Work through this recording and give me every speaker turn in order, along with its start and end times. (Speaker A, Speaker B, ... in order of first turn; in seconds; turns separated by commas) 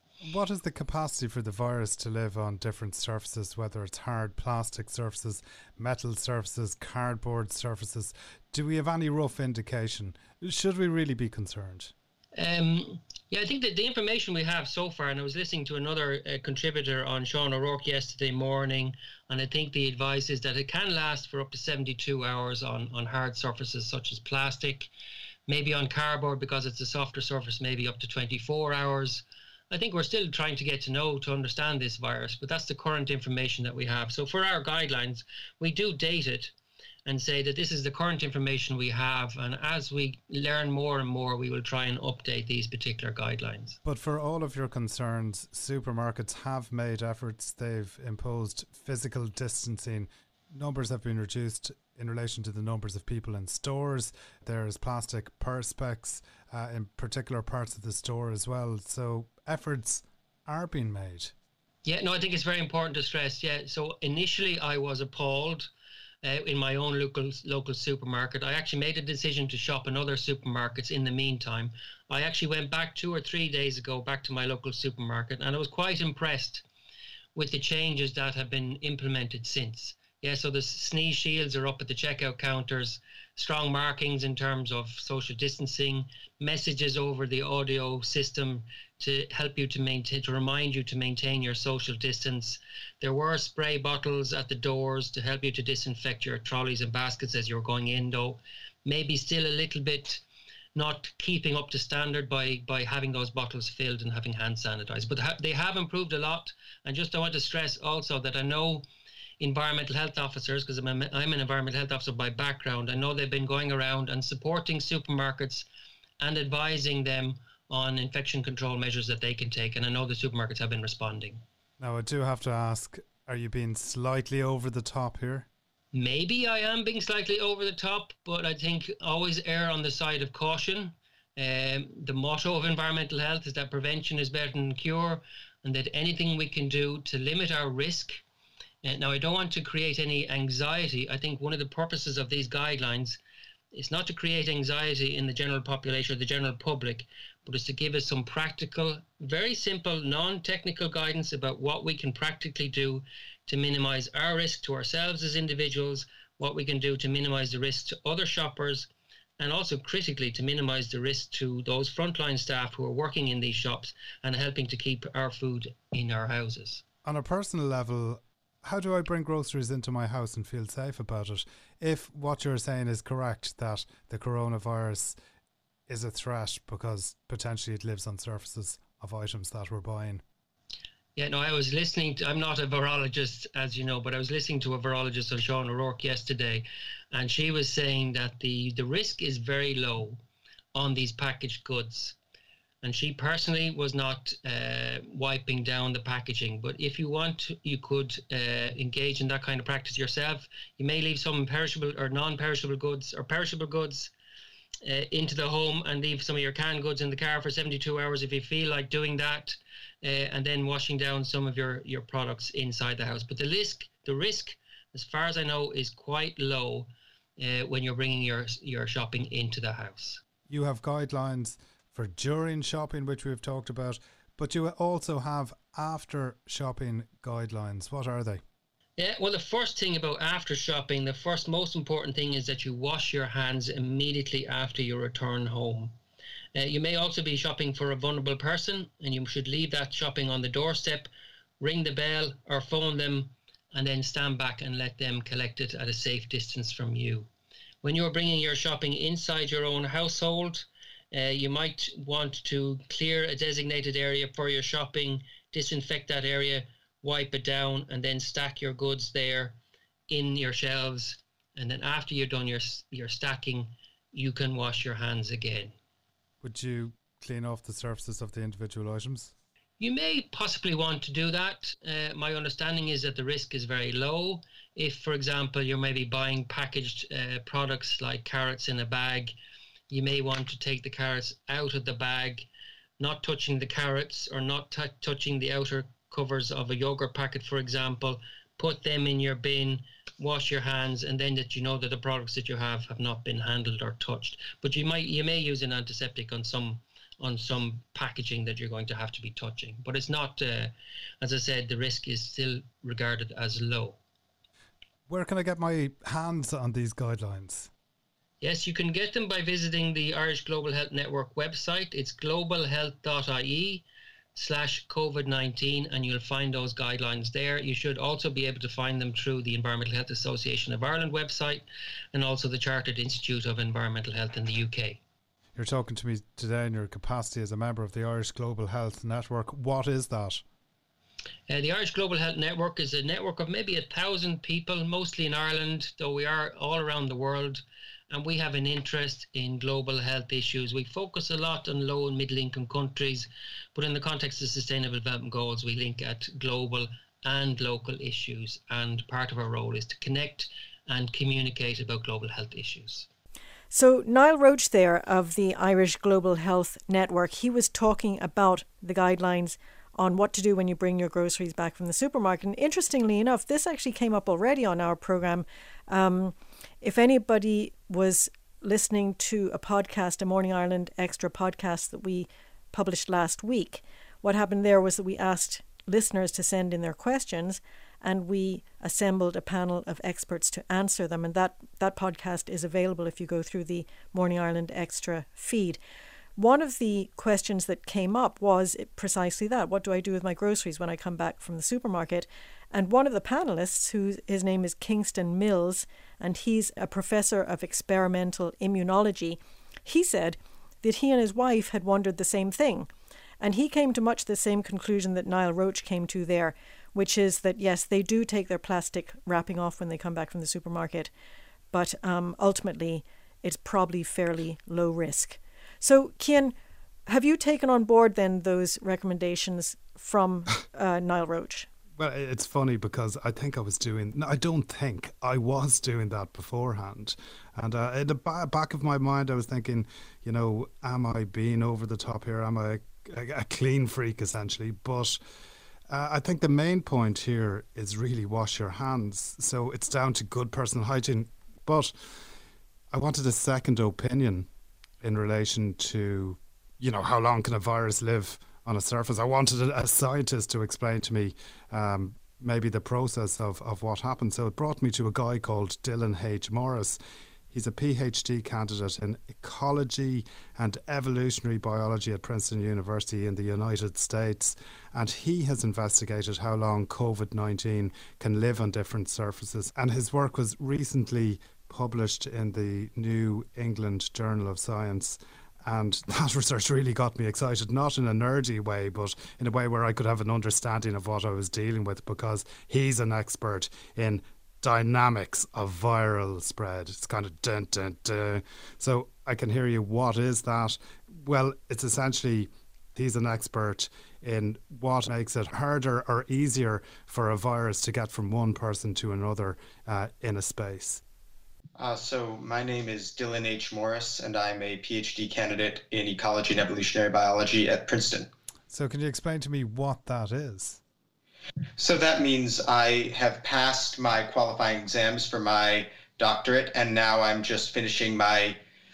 Speaker A: 0.2-11.9, Speaker B: 12.4-24.9, Speaker B: 25.5-36.5, Speaker B: 37.0-43.8, Speaker A: 43.8-61.3, Speaker B: 61.8-65.7, Speaker B: 66.2-76.6, Speaker B: 77.3-100.2, Speaker B: 100.7-108.8, Speaker B: 109.4-115.7, Speaker B: 116.2-121.4, Speaker A: 121.8-125.5, Speaker B: 125.9-138.2, Speaker B: 138.8-143.2, Speaker B: 143.7-166.8, Speaker A: 167.0-175.2, Speaker A: 175.9-180.2, Speaker B: 181.2-190.2, Speaker B: 190.7-192.2, Speaker B: 192.8-204.1, Speaker B: 204.8-220.2, Speaker A: 220.5-228.4, Speaker B: 229.0-235.9, Speaker B: 236.5-241.1, Speaker B: 241.6-247.3, Speaker B: 247.8-259.6, Speaker B: 260.1-265.7, Speaker A: 266.4-269.3, Speaker B: 269.8-279.3, Speaker B: 279.9-282.5, Speaker B: 283.0-304.0, Speaker A: 305.1-307.7, Speaker B: 308.4-313.8, Speaker B: 314.3-325.0, Speaker A: 325.5-330.4, Speaker B: 331.5-353.1, Speaker C: 353.7-385.8, Speaker C: 386.4-402.9, Speaker C: 403.4-411.1, Speaker C: 411.7-416.5, Speaker C: 417.1-421.7, Speaker A: 422.0-435.2, Speaker A: 435.9-441.9, Speaker A: 442.9-444.5, Speaker A: 445.0-457.0, Speaker A: 457.5-501.0, Speaker D: 501.8-508.3, Speaker A: 508.7-510.8, Speaker D: 511.8-518.6